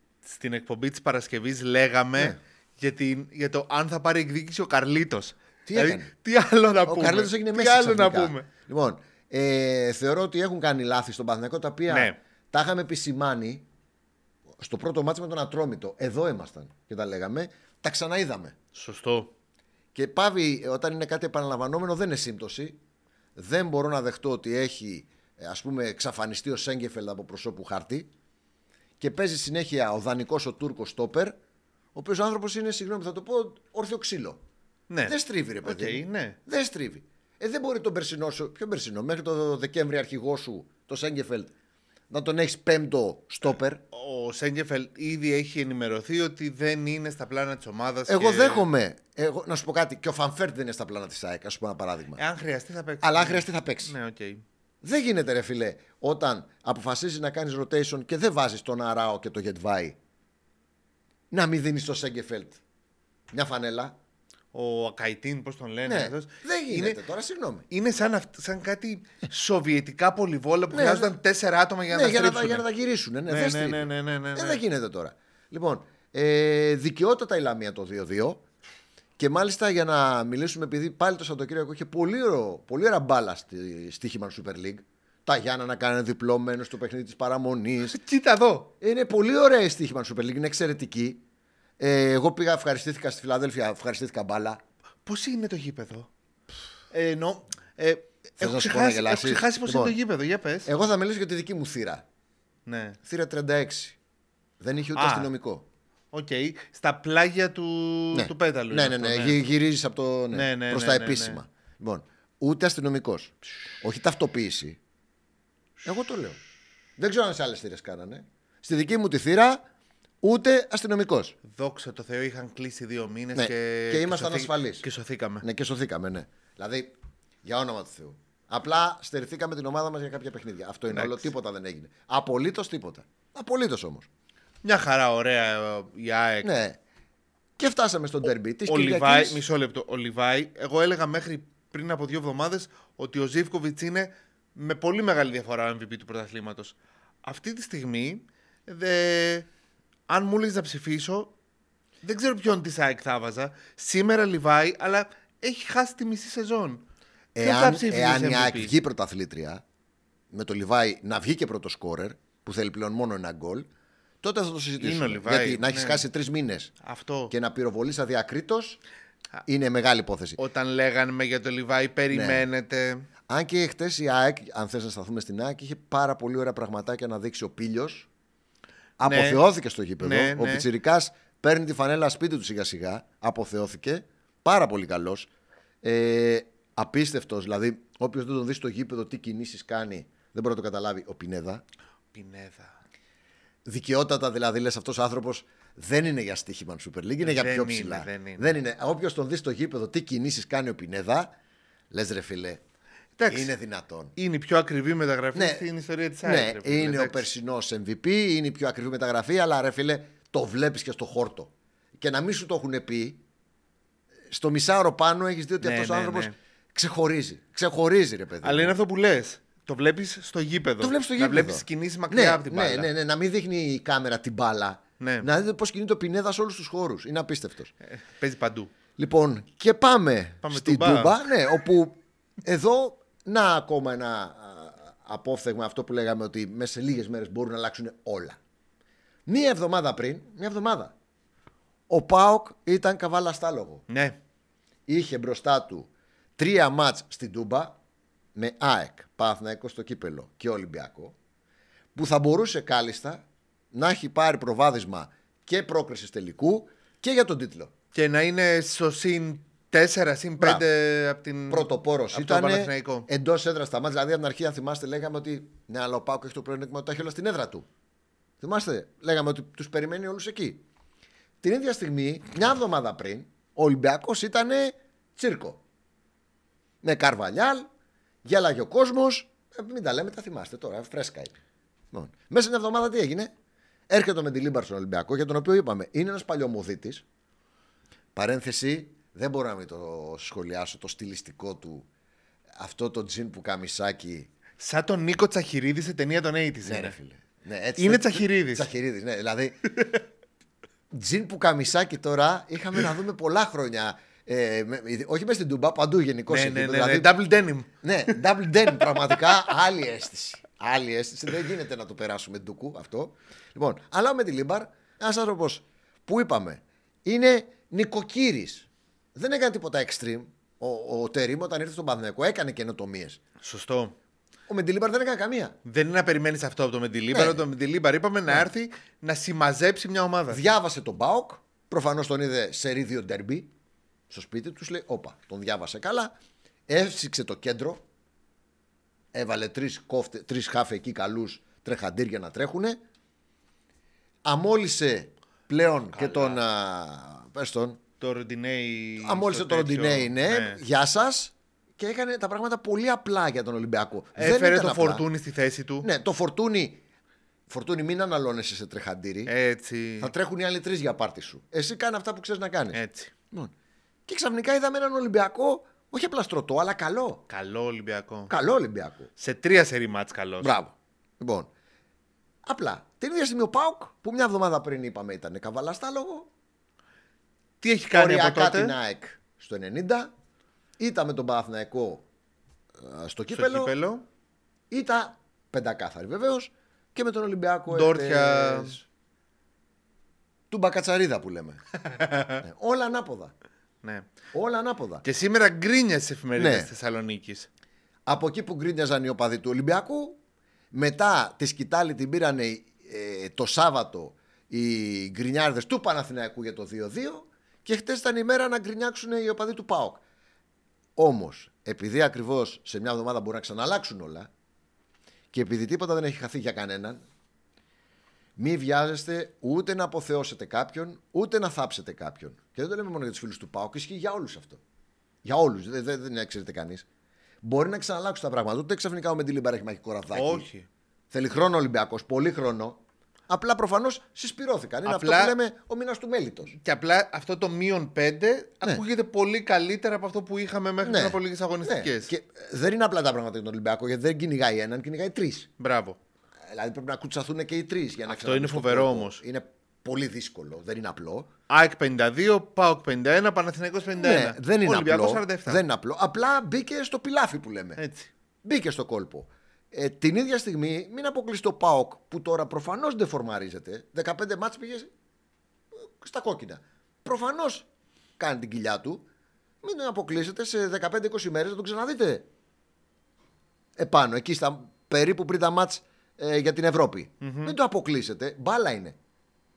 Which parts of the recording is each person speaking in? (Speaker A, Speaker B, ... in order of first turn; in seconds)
Speaker A: 0.2-8.5, 11.9-12.2, 18.7-19.3, 34.9-36.4, 43.9-48.7, 52.2-54.4, 64.5-67.0, 67.7-72.7, 73.3-74.6, 87.9-88.7, 95.1-96.1, 96.9-100.7, 102.7-103.0, 105.0-105.3, 106.1-109.4, 110.3-111.4, 121.4-125.5, 130.9-131.3, 134.6-136.5, 138.7-149.5, 150.1-151.3, 152.0-156.8, 157.4-158.7, 164.8-166.1, 166.8-167.3, 170.4-173.1, 179.0-179.4, 180.0-180.7, 192.1-192.8, 197.2-198.5, 203.2-203.5, 204.2-207.3, 215.6-216.3, 218.4-222.9, 225.0-225.3, 227.9-228.7, 230.4-231.3, 243.9-244.2, 257.9-263.1, 294.6-297.0, 297.8-298.7, 306.3-308.2, 323.4-324.0, 325.6-330.4, 345.9-346.4, 348.0-350.6, 354.2-355.9, 359.3-360.1, 362.7-363.1, 367.3-368.3, 369.2-370.6, 377.6-378.8, 383.3-384.0, 387.7-388.8, 391.9-392.4, 393.8-394.1, 395.0-397.5, 430.1-430.7, 434.8-435.4, 436.5-442.1, 445.6-446.0, 448.1-449.2, 451.5-455.6, 457.8-458.1, 477.2-477.6
Speaker B: 5.7-6.1, 6.9-13.7, 14.6-18.6, 19.9-22.8, 23.4-28.1, 29.0-31.4, 31.9-34.4, 35.1-41.5, 42.1-43.8, 48.1-52.2, 53.0-53.9, 54.8-60.0, 61.3-62.6, 63.3-64.0, 65.9-67.7, 70.7-71.2, 71.9-78.4, 79.2-88.0, 88.8-91.2, 91.8-94.6, 98.4-100.0, 100.7-102.1, 103.0-104.0, 104.6-105.7, 108.1-114.8, 115.8-116.4, 117.0-119.6, 120.2-121.4, 123.3-124.9, 125.4-134.1, 136.4-136.8, 137.6-139.4, 157.3-159.6, 160.3-163.7, 164.2-166.7, 167.3-168.8, 169.5-170.4, 172.1-172.4, 173.3-178.1, 179.0-185.3, 185.8-191.6, 193.7-201.3, 201.9-202.6, 203.3-204.1, 205.3-205.7, 206.2-213.2, 214.3-218.8, 220.8-227.7, 229.0-238.4, 239.3-240.9, 241.9-243.8, 244.9-247.8, 248.4-251.2, 251.9-257.7, 260.4-260.6, 261.5-267.7, 268.4-270.6, 271.4-275.6, 276.8-277.7, 278.2-281.4, 281.9-283.3, 283.9-287.0, 288.1-291.9, 292.6-294.3, 296.6-300.0, 300.9-307.1, 307.8-323.2, 324.5-325.6, 327.1-327.4, 330.3-333.5, 334.1-336.1, 336.7-337.8, 339.1-342.8, 344.2-347.8, 349.0-355.1, 355.8-356.8, 357.5-359.3, 360.0-362.8, 364.1-367.2, 368.3-369.1, 370.4-371.5, 372.4-376.3, 377.9-380.1, 380.8-382.1, 382.8-383.8, 384.7-388.8, 390.5-391.6, 392.4-393.3, 394.3-395.1, 396.4-396.7, 398.1-400.2, 400.7-410.0, 411.0-414.3, 415.3-417.0, 418.4-424.6, 425.2-426.9, 427.4-430.5, 431.1-436.6, 440.8-445.5, 446.5-451.3, 454.0-457.8, 458.4-464.9, 465.7-467.7, 468.2-469.1, 469.6-472.3, 473.8-479.0